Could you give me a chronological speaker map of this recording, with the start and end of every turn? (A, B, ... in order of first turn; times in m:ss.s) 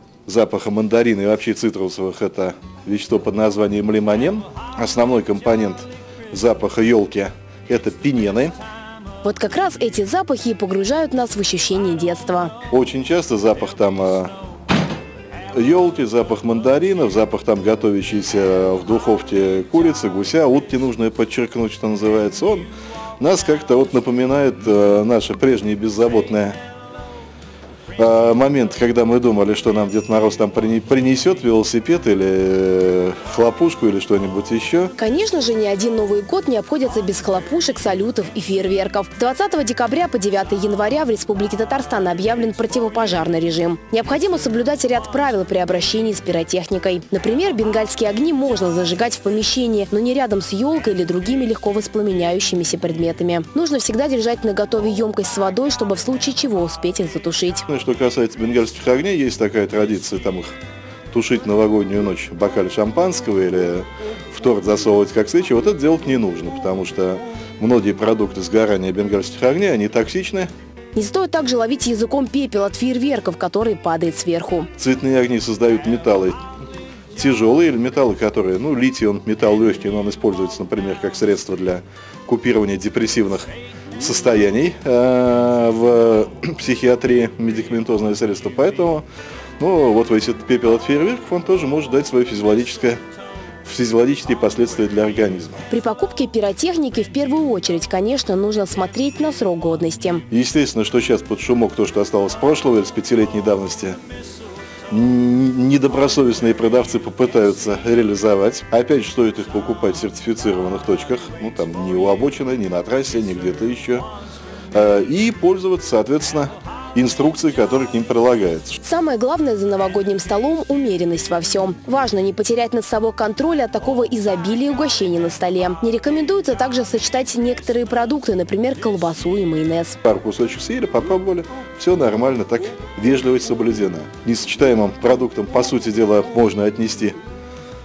0:00.3-0:08.6 A
0:09.2-0:12.5 B
0:12.7-0:14.4 A
0:15.5-0:22.7 A
0:23.2-0:26.6 A
0:28.0-0:34.9 A
0:35.0-0:57.7 B
0:57.7-1:00.6 A
1:01.1-1:10.5 A
1:11.0-1:14.7 B
1:14.8-1:16.4 A
1:17.2-1:29.0 A
1:29.6-1:33.0 A
1:33.6-1:35.6 A
1:35.7-1:40.2 B
1:40.3-1:44.0 A
1:44.9-1:54.1 A
1:54.7-1:58.8 A
1:58.8-2:10.0 B
2:10.0-2:17.2 A